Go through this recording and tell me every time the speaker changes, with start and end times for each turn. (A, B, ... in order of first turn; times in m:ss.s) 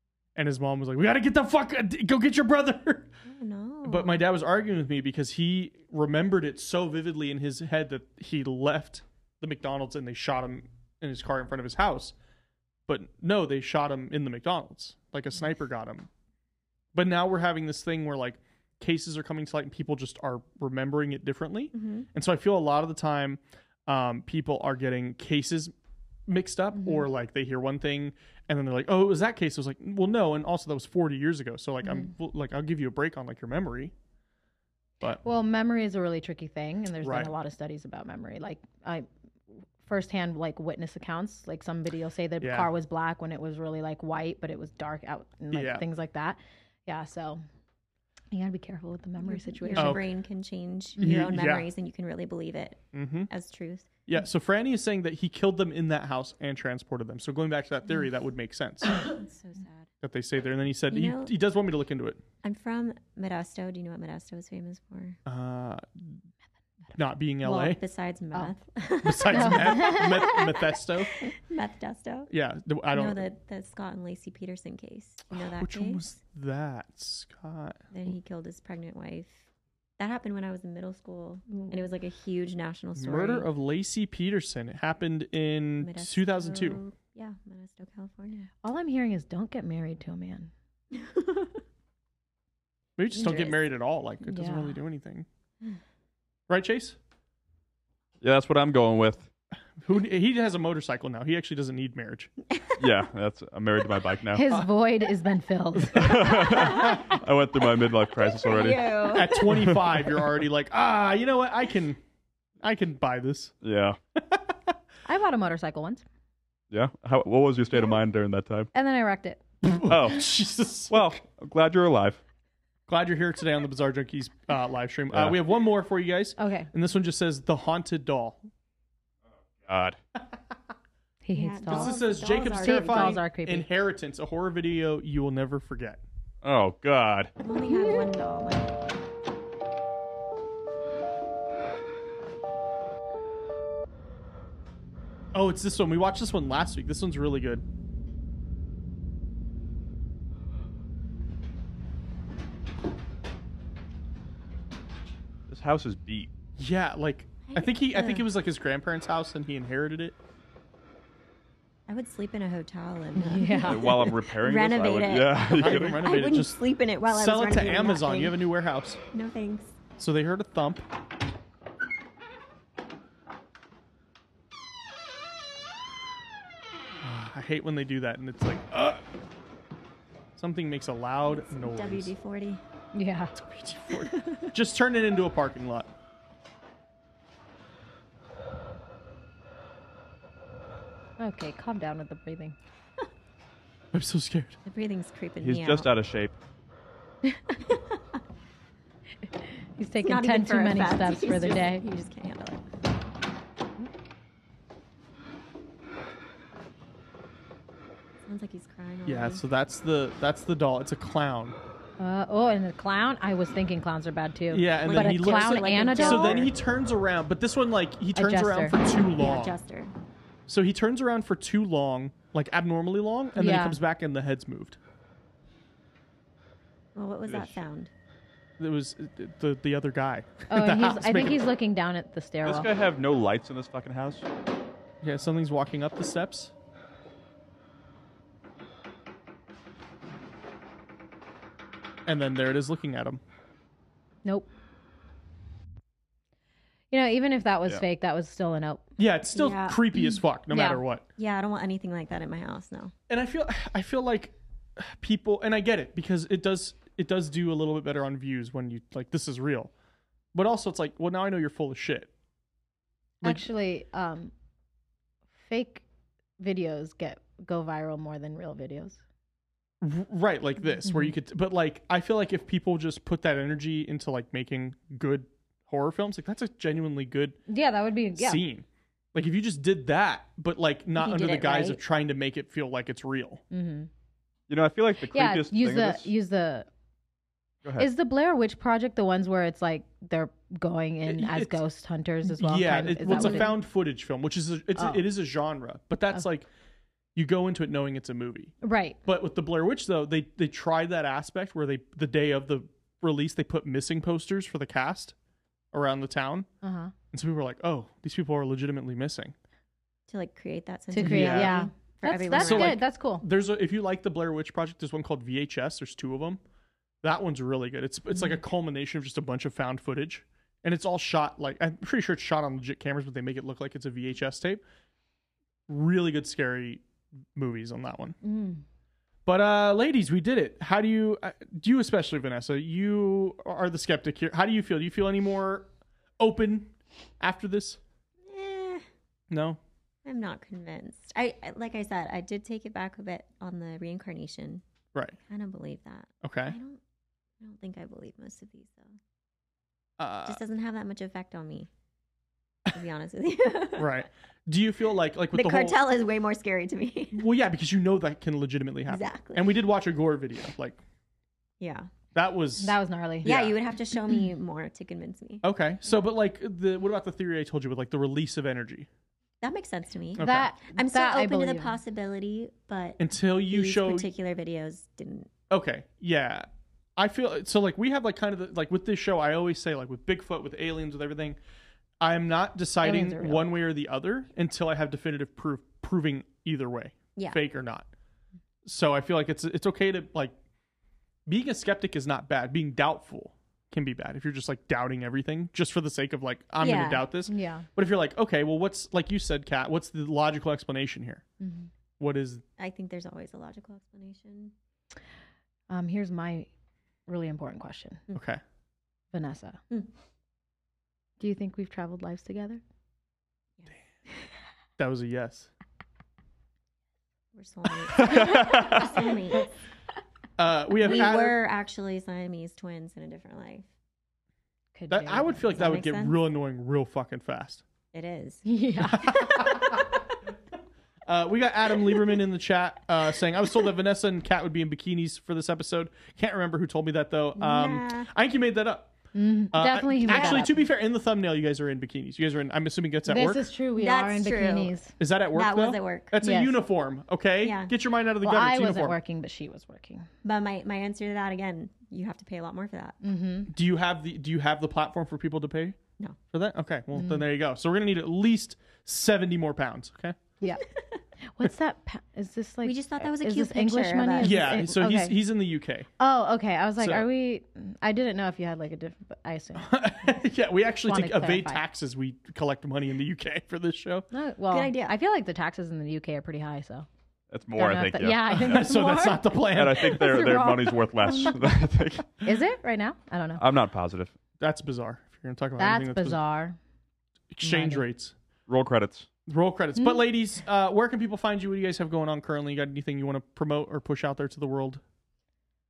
0:00.4-0:03.1 A
0:03.2-0:04.2 B
0:03.8-0:12.1 A
0:12.9-0:16.1 A
0:16.9-0:25.7 A
0:21.7-0:22.1 B
0:26.3-0:33.9 A
0:26.7-0:27.1 C
0:31.8-0:32.1 C
0:35.2-0:39.1 C
0:37.0-0:37.3 A
0:39.8-0:47.4 C
0:42.4-0:42.7 A
0:45.5-0:45.8 A
0:48.3-0:50.0 C
0:49.2-0:53.9 B
0:49.7-0:50.0 A
0:51.0-0:51.7 A
0:52.9-0:53.3 A
0:54.1-0:59.1 A
0:58.9-0:59.9 B
1:00.0-1:02.2 A
1:00.9-1:01.3 B
1:02.4-1:05.2 B
1:05.2-1:06.2 A
1:06.9-1:07.8 A
1:07.4-1:12.3 B
1:09.0-1:11.2 A
1:09.3-1:10.2 C
1:12.3-1:13.3 A
1:12.9-1:16.0 B
1:15.3-1:17.8 A
1:17.9-1:19.5 B
1:20.0-1:23.5 B
1:21.5-1:21.8 C
1:23.0-1:26.8 A
1:25.8-1:28.5 B
1:28.6-1:30.5 C
1:30.9-1:31.6 B
1:33.0-1:35.2 A
1:33.1-1:33.7 B
1:34.2-1:34.8 C
1:36.5-1:37.0 A
1:38.2-1:39.3 D
1:39.8-1:42.3 A
1:42.8-1:44.4 D
1:44.3-1:46.3 C
1:45.9-1:50.0 D
1:46.5-1:47.0 B
1:48.3-1:49.6 B
1:49.1-1:52.0 A
1:52.6-1:53.5 A
1:53.6-1:54.0 D
1:55.0-1:56.0 C
1:56.7-1:58.7 D
1:58.7-1:59.4 C
1:59.6-2:01.2 A
1:59.9-2:00.3 D
2:00.9-2:02.2 D
2:02.9-2:08.5 A
2:05.1-2:05.4 D
2:06.4-2:06.7 C
2:09.6-2:10.0 D
2:11.2-2:13.7 C
2:11.3-2:13.2 B
2:11.7-2:16.0 A
2:16.4-2:17.3 D
2:17.4-2:18.7 B
2:25.3-2:27.6 A
2:35.5-2:36.3 D
2:36.6-2:40.1 A
2:37.5-2:38.2 B
2:41.9-2:48.4 B
2:43.2-2:44.0 C
2:43.6-2:46.1 D
2:45.5-2:49.0 A
2:49.1-2:49.8 B
2:50.0-2:50.8 A
2:57.0-2:59.0 A
3:00.4-3:02.1 A
3:01.2-3:02.6 B
3:02.9-3:03.3 C
3:03.3-3:05.9 A
3:04.0-3:04.5 B
3:11.2-3:12.6 C
3:13.9-3:14.6 A
3:14.6-3:15.9 B
3:15.4-3:16.4 D
3:17.7-3:18.2 B
3:19.8-3:21.8 C
3:20.0-3:22.6 B
3:28.2-3:29.4 B
3:29.0-3:31.6 A
3:32.0-3:36.5 C
3:34.5-3:39.5 A
3:34.8-3:36.5 B
3:38.1-3:38.8 C
3:39.2-3:39.9 B
3:40.5-3:44.8 A
3:43.4-3:43.8 C
3:46.9-3:47.9 B
3:47.3-3:47.6 D
3:48.6-3:51.4 A
3:50.5-3:52.7 C
3:52.4-3:54.2 D
3:55.0-3:56.5 A
4:02.0-4:03.2 A
4:06.9-4:08.9 C
4:09.0-4:11.0 A
4:09.3-4:09.8 B
4:10.5-4:10.8 C
4:11.2-4:12.9 B
4:13.1-4:19.7 A
4:20.3-4:22.1 A
4:23.2-4:23.5 A
4:23.2-4:24.3 C
4:25.4-4:25.8 C
4:26.4-4:29.0 C
4:29.8-4:37.4 A
4:30.8-4:31.1 C
4:37.5-4:38.4 C
4:38.2-4:43.4 A
4:41.0-4:41.8 B
4:43.5-4:43.9 C
4:44.5-4:46.1 D
4:45.1-4:46.7 C
4:47.6-4:47.9 D
4:47.8-4:53.6 C
4:51.0-4:51.6 A
4:52.2-4:56.5 A
4:53.1-4:53.5 B
4:54.8-4:55.1 C
4:57.1-4:58.5 A
4:58.6-4:59.0 C
4:59.0-5:05.1 A
5:05.7-5:06.5 A
5:06.6-5:06.9 C
5:07.1-5:09.3 A
5:10.1-5:12.8 B
5:10.9-5:13.2 C
5:11.0-5:11.6 A
5:12.3-5:16.4 A
5:17.0-5:24.6 A
5:25.7-5:26.8 A
5:27.3-5:28.2 A
5:28.2-5:28.6 C
5:29.2-5:35.7 A
5:36.2-5:37.8 A
5:38.2-5:38.9 B
5:39.3-5:39.6 A
5:40.0-5:44.6 B
5:45.3-5:46.8 B
5:46.2-5:46.6 A
5:47.4-5:49.0 B
5:50.0-5:50.4 A
5:50.2-5:51.7 B
5:52.7-5:54.0 B
5:53.8-5:55.8 A
5:55.3-5:57.2 B
5:57.1-6:00.8 A
5:58.9-5:59.5 B
6:01.6-6:01.9 B
6:02.1-6:03.6 A
6:02.6-6:03.3 C
6:03.2-6:05.4 B
6:05.4-6:08.9 A
6:09.4-6:15.3 B
6:10.2-6:10.5 A
6:10.2-6:11.7 C
6:13.0-6:14.1 A
6:15.5-6:21.4 A
6:22.0-6:27.9 A
6:22.8-6:23.5 B
6:28.6-6:30.3 A
6:31.2-6:41.2 A
6:36.6-6:37.0 B
6:37.3-6:37.6 C
6:41.4-6:41.7 C
6:42.0-6:42.4 A
6:42.6-6:44.5 B
6:45.7-6:46.5 C
6:47.1-6:48.0 C
6:48.1-6:48.4 A
6:49.1-6:49.6 C
6:51.2-6:52.6 C
6:54.8-6:55.5 A
6:57.3-6:59.5 B
6:58.0-6:58.8 D
7:00.4-7:01.4 A
7:00.8-7:03.7 B
7:04.7-7:05.8 C
7:04.9-7:07.6 A
7:05.6-7:06.2 B
7:07.9-7:08.4 B
7:08.4-7:09.5 C
7:08.9-7:09.8 A
7:11.1-7:18.9 A
7:17.4-7:18.1 B
7:19.1-7:20.6 C
7:19.5-7:23.4 A
7:20.1-7:20.5 B
7:23.0-7:24.9 C
7:23.8-7:24.8 B
7:25.0-7:29.0 A
7:25.3-7:26.1 B
7:26.2-7:26.6 C
7:27.4-7:27.7 B
7:28.2-7:30.1 C
7:30.2-7:33.0 B
7:33.0-7:33.5 C
7:33.5-7:35.8 A
7:36.3-7:40.2 A
7:36.9-7:37.2 C
7:41.4-7:45.2 C
7:42.6-7:44.5 B
7:44.2-7:45.9 A
7:46.0-7:50.2 C
7:46.8-7:47.0 A
7:49.6-7:54.1 A
7:50.8-7:51.6 C
7:54.1-7:56.9 C
7:54.5-7:55.0 B
7:57.3-7:58.6 D
7:57.6-8:01.3 C
7:58.4-7:59.9 A
7:59.5-8:02.2 D
8:02.2-8:03.4 C
8:03.4-8:04.2 D
8:04.4-8:06.2 A
8:05.6-8:06.6 C
8:07.3-8:08.1 A
8:07.4-8:07.8 C
8:08.5-8:09.1 D
8:09.3-8:14.8 A
8:09.8-8:10.0 C